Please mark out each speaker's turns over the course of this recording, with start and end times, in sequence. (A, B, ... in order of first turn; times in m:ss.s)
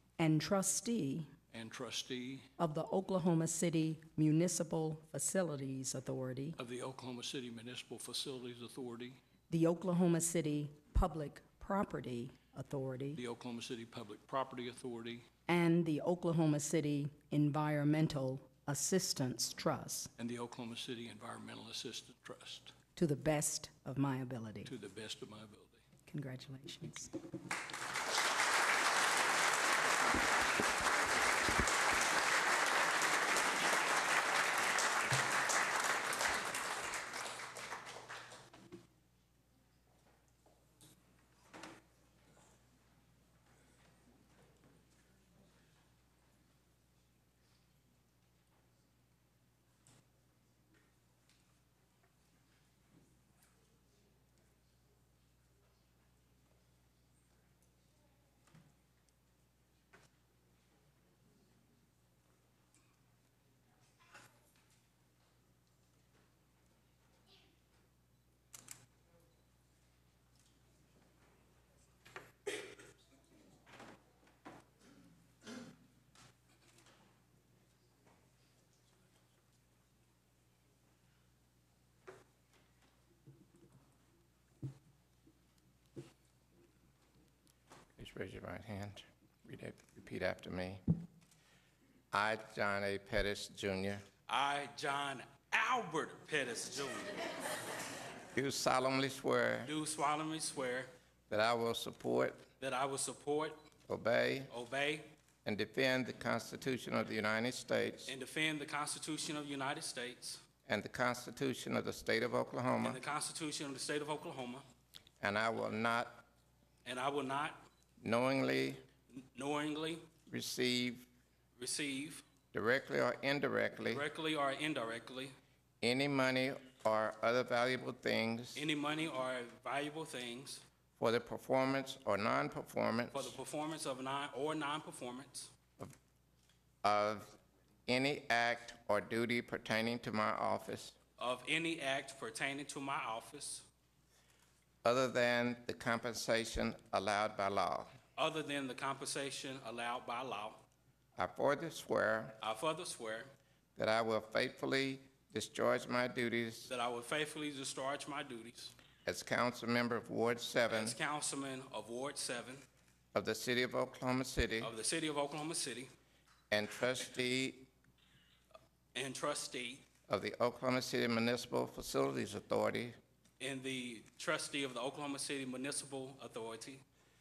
0:00.2-0:01.3 A
0:01.5-0:02.5 B
0:02.6-0:06.6 A
0:06.6-0:09.2 B
0:09.5-0:13.2 A
0:13.2-0:15.3 B
0:15.5-0:20.1 A
0:20.2-0:22.7 B
0:23.0-0:24.7 A
0:24.6-0:25.8 B
0:26.0-0:27.1 A
1:28.0-1:30.8 C
1:32.1-1:34.0 C
1:34.3-1:37.2 D
1:38.3-1:39.7 C
1:39.7-1:40.9 D
1:41.3-1:42.4 C
1:42.6-1:43.6 D
1:43.9-1:44.5 C
1:44.5-1:45.1 D
1:45.4-1:48.1 C
1:48.1-1:50.4 D
1:50.7-1:53.0 C
1:52.8-1:54.7 D
1:55.2-1:56.2 C
1:56.8-1:57.7 D
1:58.0-1:58.8 C
1:59.1-2:00.1 D
2:00.3-2:01.1 C
2:01.6-2:02.2 D
2:02.5-2:04.0 C
2:03.8-2:05.4 D
2:05.8-2:08.6 C
2:08.6-2:10.6 D
2:11.0-2:13.4 C
2:13.1-2:15.5 D
2:16.8-2:17.3 C
2:17.9-2:21.0 C
2:21.2-2:23.7 D
2:24.8-2:27.9 C
2:28.2-2:30.6 D
2:31.2-2:32.4 C
2:32.4-2:33.3 D
2:33.8-2:36.7 C
2:36.7-2:38.8 D
2:39.0-2:41.0 C
2:40.7-2:42.7 D
2:43.1-2:44.7 C
2:44.6-2:45.9 D
2:46.5-2:47.7 C
2:48.9-2:49.8 D
2:50.1-2:53.0 C
2:53.4-2:56.8 D